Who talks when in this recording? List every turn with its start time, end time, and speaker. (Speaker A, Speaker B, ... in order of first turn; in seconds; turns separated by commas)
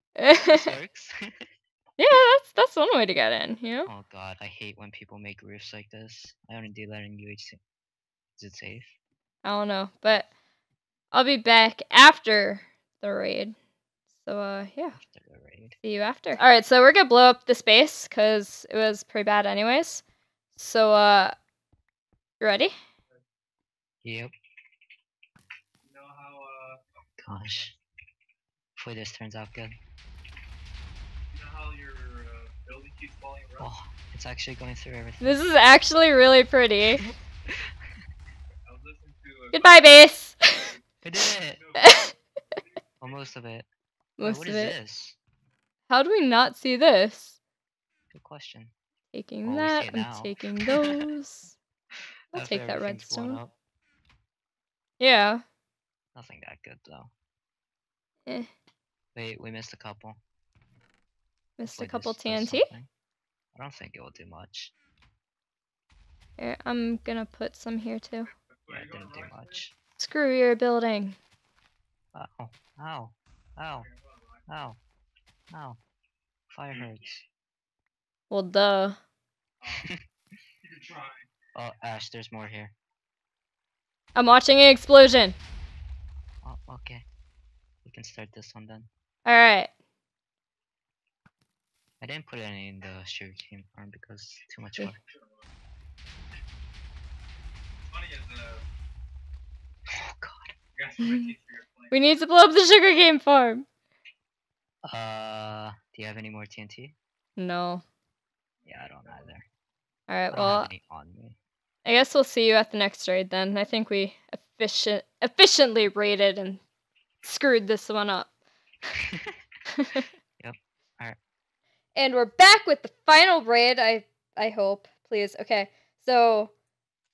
Speaker A: 0.2-0.7, Speaker B: 0.5-1.4, Speaker A: 2.0-3.9, Speaker B: 3.9-7.6, Speaker B: 8.3-8.9, Speaker A: 9.4-10.3, Speaker A: 11.1-13.5, Speaker A: 14.2-15.0, Speaker B: 14.9-15.8, Speaker A: 15.8-20.0, Speaker A: 20.6-21.3, Speaker A: 22.4-22.7, Speaker B: 24.0-24.3, Speaker C: 25.8-26.8, Speaker B: 27.2-27.8, Speaker B: 28.8-29.8, Speaker C: 31.3-33.7, Speaker B: 33.6-35.4, Speaker A: 35.2-37.0, Speaker C: 38.6-40.8, Speaker A: 39.5-40.5, Speaker B: 41.0-41.6, Speaker C: 41.5-43.3, Speaker A: 41.8-42.1, Speaker B: 43.0-43.7, Speaker A: 44.2-44.8, Speaker B: 44.2-45.1, Speaker A: 45.9-47.4, Speaker B: 48.1-48.7, Speaker A: 49.1-51.5, Speaker B: 49.4-50.9, Speaker A: 52.3-53.4, Speaker B: 52.3-53.5, Speaker A: 55.0-55.4, Speaker B: 56.1-57.1, Speaker B: 59.1-60.2, Speaker A: 61.6-62.6, Speaker B: 61.6-62.9, Speaker B: 63.5-64.7, Speaker A: 66.4-68.3, Speaker C: 68.5-69.6, Speaker B: 68.7-69.7, Speaker A: 70.0-71.2, Speaker B: 72.1-73.9, Speaker C: 73.7-74.5, Speaker B: 74.5-74.8, Speaker B: 75.5-75.8, Speaker B: 76.5-77.2, Speaker A: 78.3-79.0, Speaker C: 79.6-79.9, Speaker C: 80.6-81.3, Speaker B: 81.5-82.7, Speaker A: 84.1-85.4, Speaker B: 86.4-87.0, Speaker B: 87.8-88.9, Speaker A: 89.2-89.7, Speaker B: 92.0-95.0, Speaker C: 95.1-95.4, Speaker C: 97.9-98.6, Speaker B: 99.9-100.5, Speaker C: 100.7-102.0, Speaker A: 101.0-101.3, Speaker A: 101.9-103.7, Speaker B: 104.8-107.0, Speaker A: 107.4-107.8, Speaker C: 108.6-109.3, Speaker B: 108.7-109.4, Speaker A: 110.1-110.7, Speaker B: 110.3-111.4, Speaker A: 111.8-116.6, Speaker A: 117.2-118.3, Speaker A: 119.8-120.1, Speaker B: 120.4-121.2, Speaker A: 121.9-126.5